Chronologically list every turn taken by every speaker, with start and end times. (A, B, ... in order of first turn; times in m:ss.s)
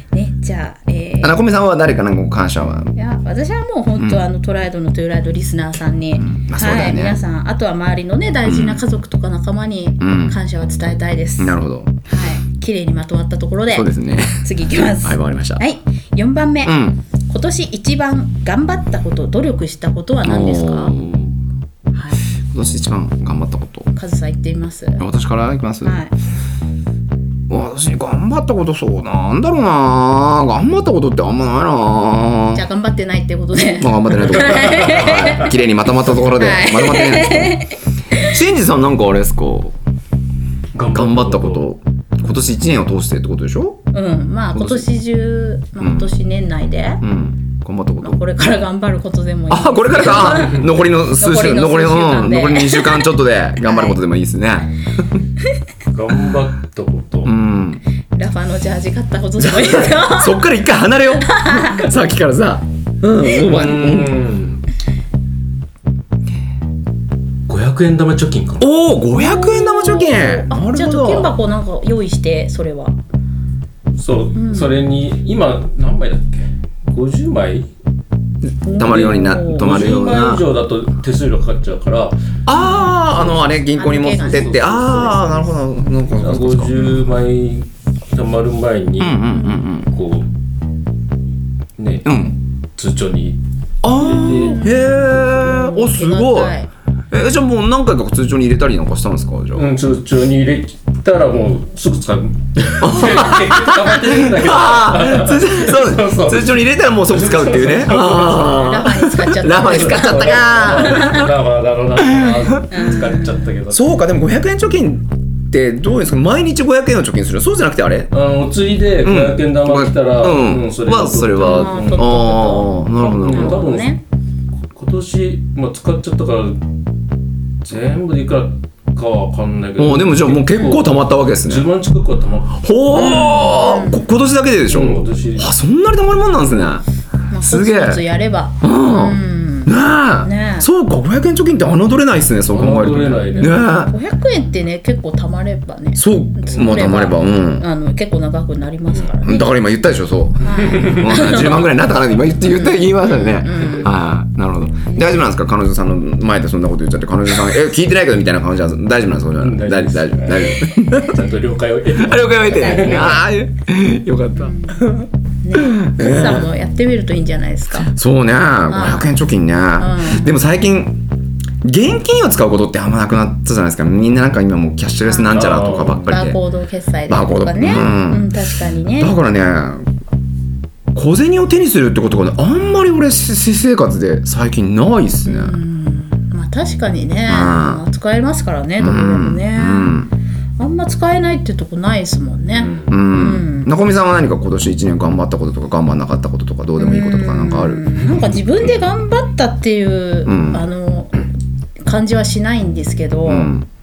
0:00.1-0:01.4 A
0:01.2-0:02.9 B
0:03.0-0:13.9 A
0:06.2-0:07.2 B
0:08.5-0:08.8 B
0:10.0-0:10.4 B
0:11.4-0:12.0 B
0:13.7-0:15.6 B
0:14.4-0:21.0 A
0:16.6-0:17.0 B
0:20.2-0:21.4 B
0:21.9-0:22.2 A
0:22.5-0:23.9 B
0:24.0-0:25.0 A
0:25.0-0:26.0 B
0:25.8-0:26.1 A
0:27.5-0:32.6 B
0:32.5-0:35.5 A
0:33.8-0:37.6 B
0:34.6-0:35.1 C
0:36.3-0:38.3 A
0:38.1-0:39.8 B
0:40.7-0:41.7 C
0:40.9-0:43.8 B
0:43.9-0:47.0 A
0:44.5-0:44.9 B
0:45.8-0:46.1 B
0:47.0-0:48.2 B
0:48.0-0:53.0 A
0:49.5-0:55.2 B
0:53.6-0:54.0 A
0:55.9-0:57.4 C
0:57.2-0:57.8 B
0:58.2-1:00.4 A
0:59.4-1:04.2 B
1:01.2-1:02.0 A
1:03.3-1:04.6 C
1:07.5-1:08.7 C
1:08.6-1:11.4 B
1:09.2-1:13.0 A
1:14.0-1:17.7 C
1:14.4-1:14.8 A
1:18.7-1:19.9 A
1:18.7-1:20.4 B
1:18.8-1:22.2 C
1:22.5-1:27.0 B
1:22.5-1:22.9 A
1:22.8-1:23.4 C
1:23.7-1:24.6 A
1:24.2-1:25.5 C
1:26.2-1:29.3 C
1:29.0-1:29.9 B
1:29.8-1:30.3 C
1:31.8-1:32.2 C
1:32.0-1:32.4 B
1:32.8-1:34.7 C
1:33.8-1:36.6 B
1:34.4-1:36.7 A
1:37.1-1:39.7 B
1:39.6-1:48.7 C
1:42.8-1:51.3 B
1:48.2-1:51.3 A
1:49.6-1:53.9 C
1:52.1-1:52.6 B
1:52.7-1:53.4 A
1:53.7-1:58.1 B
1:58.1-2:02.2 C
1:59.0-2:03.8 B
2:01.4-2:04.0 A
2:03.0-2:04.0 C
2:04.7-2:06.6 C
2:07.6-2:12.6 C
2:09.8-2:11.7 B
2:12.6-2:16.8 B
2:12.9-2:14.0 A
2:14.7-2:15.5 C
2:17.3-2:20.7 A
2:17.4-2:18.0 B
2:18.6-2:24.0 B
2:22.5-2:23.6 C
2:23.3-2:29.5 A
2:26.0-2:27.7 B
2:29.2-2:41.2 B
2:30.4-2:31.6 A
2:30.6-2:31.5 C
2:32.4-2:33.9 A
2:39.4-2:43.2 C
2:42.0-2:46.5 B
2:42.5-2:43.2 A
2:44.4-2:44.8 A
2:45.4-2:47.9 A
2:47.8-2:51.0 B
2:48.7-2:49.1 A
2:49.8-2:50.3 A
2:51.6-2:56.4 B
2:55.0-2:55.5 A
2:55.3-2:56.1 C
2:56.1-2:59.2 A
2:57.1-2:58.3 B
2:59.0-2:59.9 B
3:00.9-3:05.6 B
3:05.2-3:10.0 A
3:07.3-3:07.8 B
3:08.8-3:10.1 B
3:10.6-3:13.7 A
3:12.6-3:12.9 C
3:12.8-3:18.2 B
3:16.8-3:21.3 A
3:20.3-3:20.6 B
3:21.8-3:23.5 A
3:23.3-3:23.7 B